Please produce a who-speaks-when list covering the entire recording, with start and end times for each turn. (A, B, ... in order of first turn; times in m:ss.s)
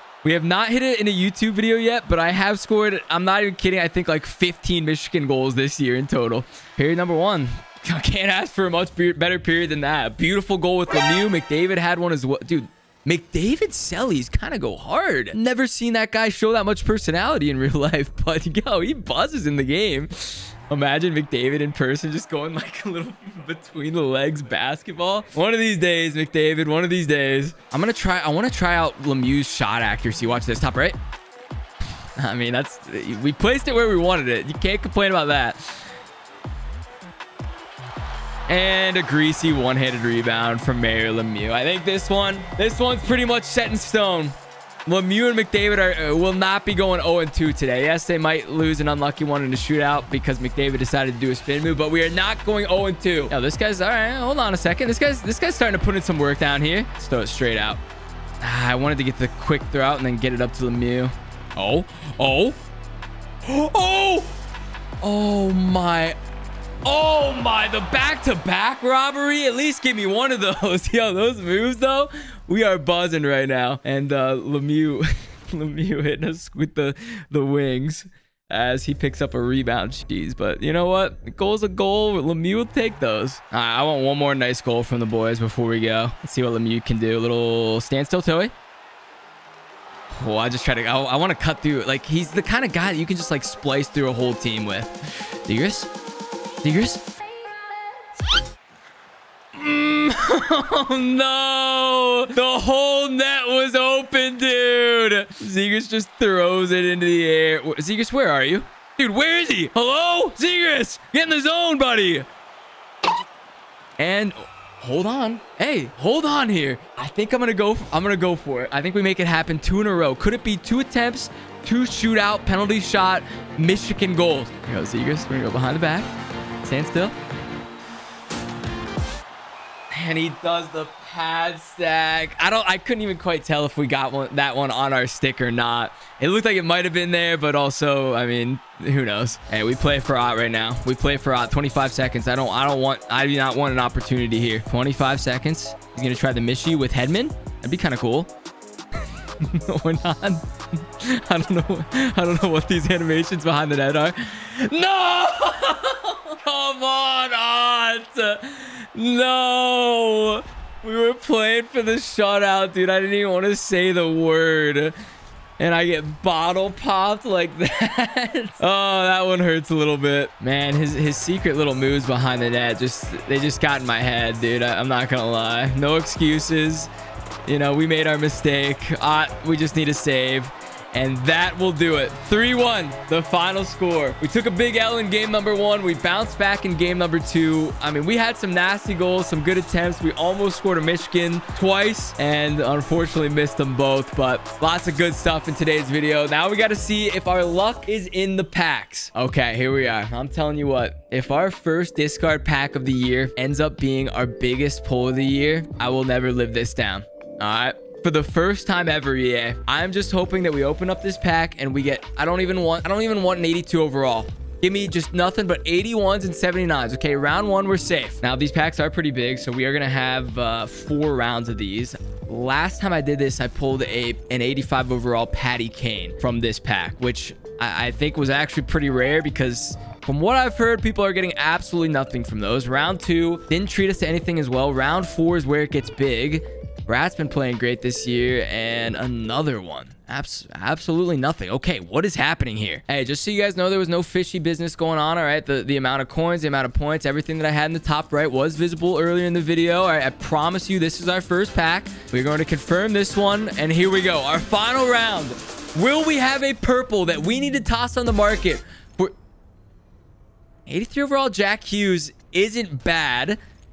0:00.2-0:31.0 A
0:32.2-0:35.8 A
0:38.5-0:44.4 A
0:44.9-0:57.8 A
0:58.4-1:02.6 A
1:03.4-1:04.4 A
1:05.0-1:06.2 A
1:06.8-1:28.5 A
1:30.1-1:35.9 A
1:36.6-1:37.0 A
1:39.6-1:52.3 A
1:54.0-2:07.1 A
2:09.9-2:28.3 A
2:29.4-2:45.0 A
2:45.6-2:56.9 A
2:57.4-4:19.1 A
4:20.7-4:23.4 A